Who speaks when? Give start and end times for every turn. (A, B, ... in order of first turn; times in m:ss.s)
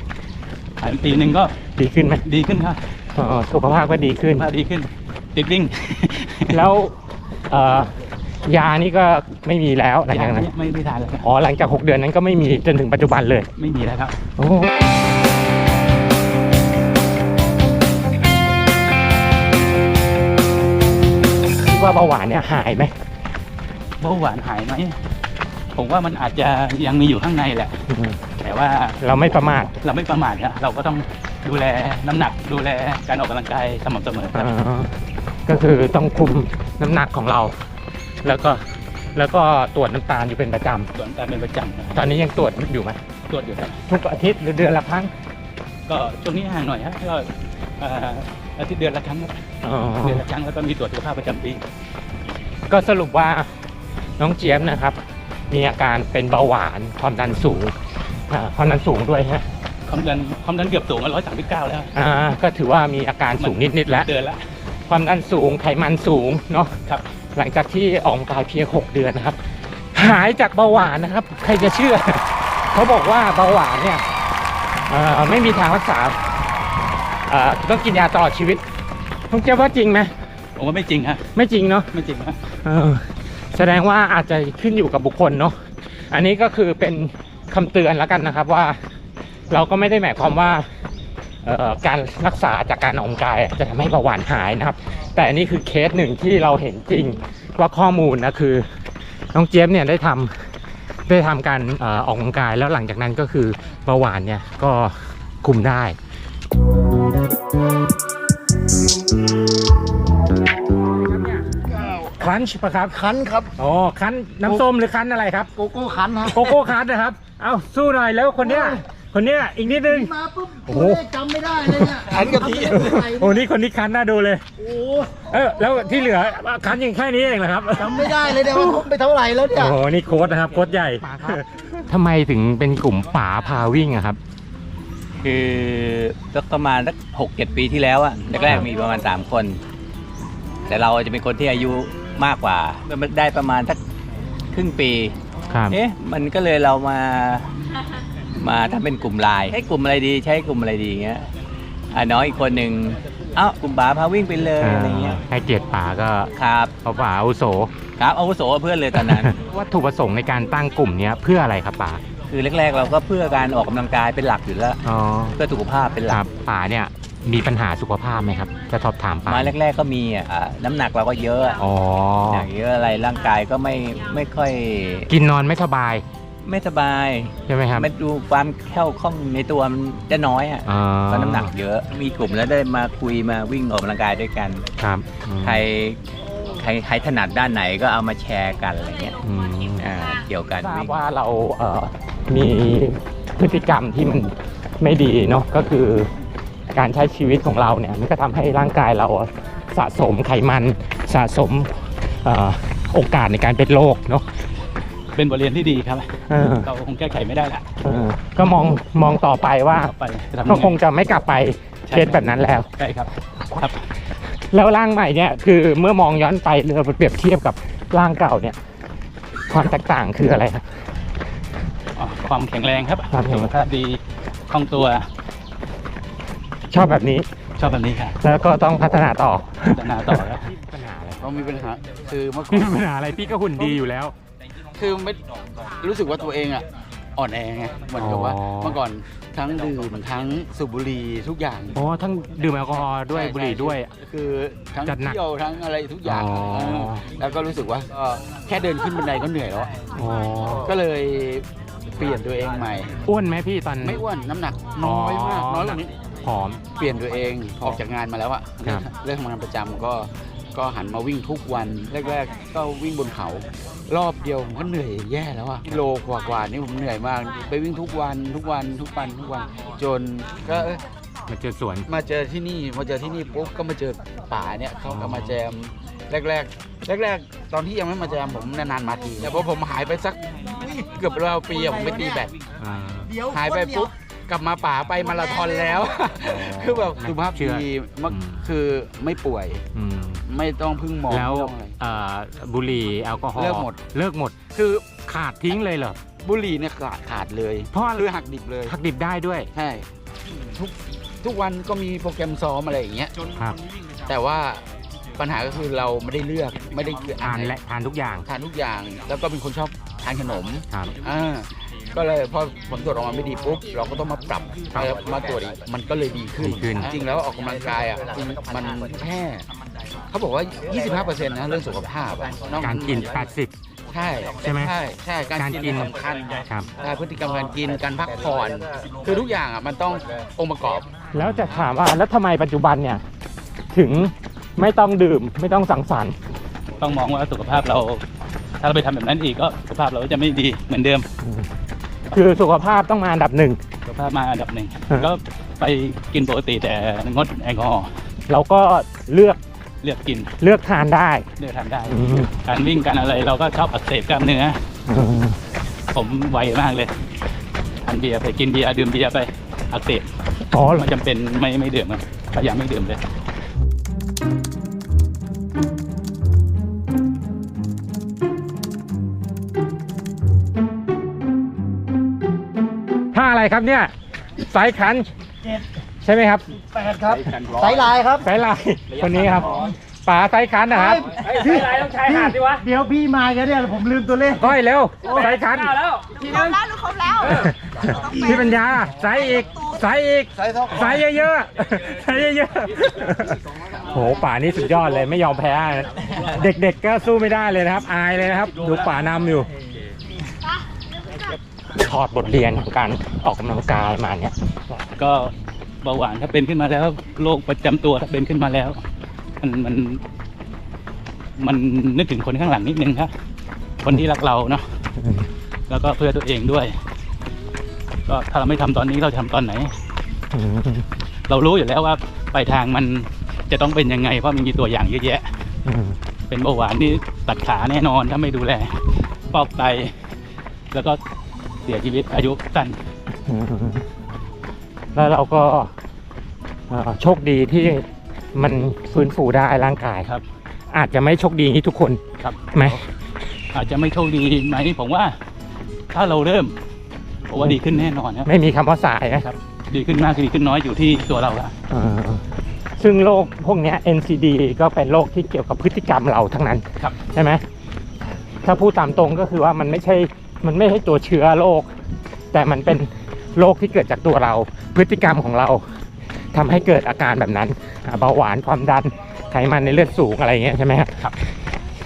0:00.8-0:01.6 A
0:01.8-0:02.2 B
0:02.2-0:02.8 A
0:03.1-0:04.4 B
0:04.3-0:06.6 A
0:06.5-0:07.0 B
0:07.5-0:10.5 B
0:10.1-0:11.2 A
0:11.2-0:13.5 B
0:13.6-0:14.1 A
0:14.4-0:14.8 B
0:21.5-0:22.9 B
0:24.0-0:24.9 A
0:25.8-0:27.8 A
0:27.9-0:28.2 B
0:28.4-0:29.0 A
0:29.0-0:29.7 B
0:29.8-0:34.5 A
0:34.3-0:34.9 B
0:35.4-0:37.5 B
0:38.2-0:38.6 B
0:39.1-0:40.9 B
0:40.9-0:42.0 A
0:41.9-0:43.0 B
0:43.3-0:43.8 A
0:43.9-0:45.1 B
0:45.9-0:49.3 A
0:49.6-0:50.2 B
0:50.0-0:51.6 A
0:52.7-0:53.5 B
0:54.2-0:55.0 B
0:55.5-0:57.7 B
0:58.3-0:59.4 B
0:59.9-1:01.9 A
1:01.9-1:04.1 B
1:03.4-1:04.4 A
1:04.9-1:06.7 B
1:07.3-1:09.4 B
1:09.9-1:14.0 B
1:14.9-1:16.2 B
1:17.3-1:18.6 B
1:19.3-1:20.1 B
1:20.6-1:21.2 A
1:21.3-1:21.9 B
1:21.9-1:22.4 A
1:22.6-1:25.6 B
1:26.1-1:28.8 B
1:29.5-1:30.6 B
1:31.4-1:38.6 B
1:39.3-1:40.3 B
1:41.1-1:46.0 B
1:52.2-1:53.0 B
1:52.9-1:53.5 C
1:53.6-1:55.5 B
1:55.5-1:56.6 C
1:56.3-2:00.1 B
1:58.4-1:58.8 C
1:59.8-2:03.4 C
2:00.7-2:01.0 B
2:01.6-2:04.4 B
2:04.6-2:05.3 C
2:05.3-2:08.8 B
2:07.8-2:09.8 C
2:09.5-2:14.2 B
2:15.2-2:19.6 D
2:18.4-2:18.7 B
2:20.7-2:23.8 D
2:24.5-2:25.1 D
2:25.5-2:25.8 B
2:25.7-2:27.5 D
2:28.4-2:31.2 D
2:31.9-2:35.2 D
2:34.6-2:36.3 B
2:36.4-2:36.7 D
2:36.8-2:37.7 B
2:38.0-2:39.3 D
2:38.9-2:42.0 B
2:42.3-2:44.8 D
2:44.8-2:45.4 B
2:45.4-2:46.2 D
2:46.1-2:49.5 B
2:49.3-2:51.6 D
2:51.6-2:52.5 B
2:52.3-2:55.1 D
2:55.1-2:56.0 B
2:56.4-3:04.6 D
2:57.5-2:57.9 B
3:00.6-3:01.5 B
3:04.8-3:05.6 B
3:05.4-3:06.0 D
3:06.6-3:09.2 D
3:09.2-3:09.9 B
3:09.8-3:10.9 D
3:10.6-3:16.1 B
3:16.7-3:24.2 B
3:25.1-3:26.1 A
3:26.3-3:26.7 B
3:26.6-3:27.6 A
3:27.8-3:29.9 B
3:29.8-3:30.8 A
3:30.4-3:32.7 B
3:31.9-3:32.2 A
3:32.8-3:33.8 A
3:34.4-3:38.6 B
3:39.5-3:40.6 B
3:42.0-3:45.1 A
3:43.1-3:43.5 B
3:46.7-3:47.3 B
3:47.6-3:48.2 A
3:48.2-3:51.2 B
3:49.7-3:50.5 A
3:51.2-3:52.8 E
3:52.5-3:54.1 B
3:54.8-3:55.2 E
3:55.8-4:01.8 E
3:58.0-3:58.8 B
4:01.7-4:03.9 B
4:03.1-4:09.7 E
4:04.8-4:05.2 B
4:06.0-4:07.0 B
4:10.0-4:10.7 B
4:10.6-4:12.9 E
4:13.0-4:14.0 B
4:13.8-4:15.9 E
4:14.8-4:16.6 B
4:16.8-4:30.8 E
4:31.3-4:31.9 B
4:31.9-4:40.2 E
4:34.9-4:35.4 B
4:40.6-4:40.9 C
4:40.8-4:42.3 E
4:42.6-4:43.1 B
4:43.1-4:43.8 C
4:43.3-4:49.6 E
4:46.2-4:48.4 B
4:49.7-4:50.2 B
4:50.3-4:51.7 E
4:51.1-4:56.0 B
4:53.4-4:53.8 E
4:56.2-4:58.7 E
4:57.7-4:58.0 B
4:58.6-4:59.5 B
4:59.5-4:59.8 E
5:00.6-5:03.1 E
5:04.1-5:04.6 E
5:05.2-5:07.5 E
5:07.2-5:08.2 B
5:08.3-5:19.4 E
5:16.4-5:16.9 B
5:20.1-5:23.0 E
5:22.6-5:23.5 B
5:23.9-5:30.8 E
5:24.4-5:24.7 B
5:25.4-5:25.9 B
5:31.1-5:33.0 B
5:33.7-5:36.2 B
5:36.8-5:38.0 A
5:38.6-5:41.1 A
5:41.2-5:41.5 B
5:42.1-5:43.6 B
5:43.9-5:47.9 A
5:48.3-5:49.4 B
5:49.8-5:50.3 A
5:50.4-5:51.2 B
5:51.4-5:54.6 A
5:51.9-5:52.3 B
5:54.9-5:55.4 B
5:55.9-5:56.9 A
5:57.8-6:00.1 A
6:00.5-6:00.9 B
6:00.8-6:03.0 A
6:13.1-6:15.1 B
6:16.0-6:16.5 B
6:16.6-6:18.2 C
6:17.4-6:17.7 E
6:18.2-6:22.6 B
6:20.7-6:24.5 C
6:24.4-6:25.8 B
6:26.1-6:28.4 F
6:27.2-6:39.5 B
6:41.8-6:44.8 B
6:45.0-6:48.8 A
6:49.4-6:50.0 A
6:51.4-6:53.1 A
6:53.8-6:54.6 A
6:55.0-6:55.3 B
6:55.7-6:56.8 A
6:58.1-6:59.7 A
7:00.3-7:00.8 B
7:01.3-7:05.3 A
7:05.6-7:06.0 B
7:06.3-7:10.0 A
7:10.7-7:11.0 A
7:11.6-7:12.8 A
7:13.2-7:13.8 B
7:14.9-7:15.7 B
7:16.7-7:20.1 B
7:20.7-7:22.0 B
7:22.2-7:22.8 A
7:22.5-7:22.8 B
7:23.5-7:25.1 A
7:25.9-7:26.5 A
7:27.3-7:28.3 A
7:28.2-7:29.3 B
7:29.2-7:31.5 A
7:31.7-7:32.2 B
7:32.8-7:37.4 B
7:38.4-7:41.7 B
7:42.3-7:45.6 B
7:46.3-7:51.1 B